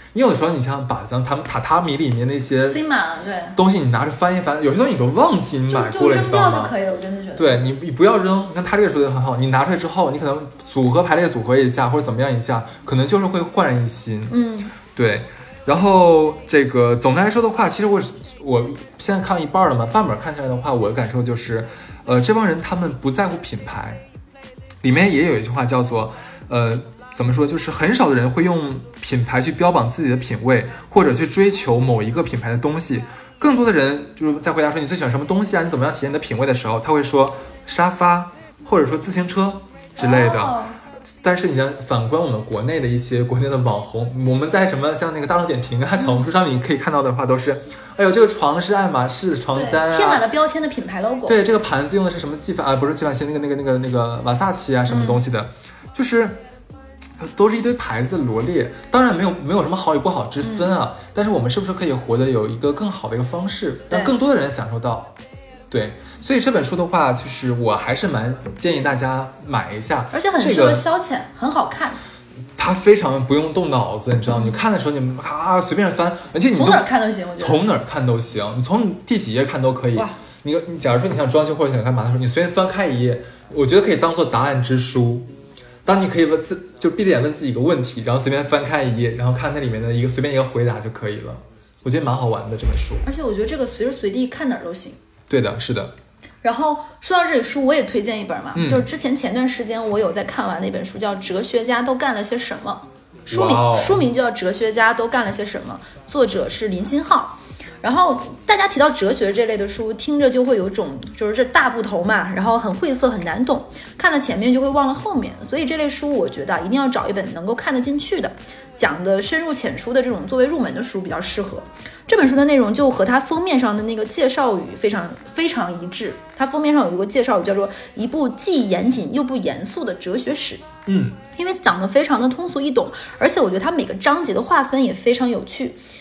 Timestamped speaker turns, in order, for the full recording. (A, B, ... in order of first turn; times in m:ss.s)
0:00.1-0:02.8 A
0:02.6-0:03.6 B
0:03.6-0:06.8 A
0:05.7-0:07.7 B
0:07.4-0:24.0 A
0:14.3-0:14.7 B
0:24.8-0:40.6 A
0:40.0-0:40.8 B
0:41.2-0:50.3 A
0:49.5-0:51.4 B
0:51.3-0:56.4 A
0:54.9-0:55.2 B
0:57.2-1:05.1 A
1:00.4-1:00.7 B
1:05.7-1:10.8 A
1:10.1-1:12.0 B
1:12.6-1:25.3 A
1:16.5-1:17.6 B
1:25.8-1:33.0 A
1:33.0-1:35.0 B
1:35.3-1:35.9 A
1:36.4-2:10.6 B
1:38.5-1:38.9 A
1:43.3-1:44.0 A
2:10.9-2:11.2 A
2:11.4-2:15.8 B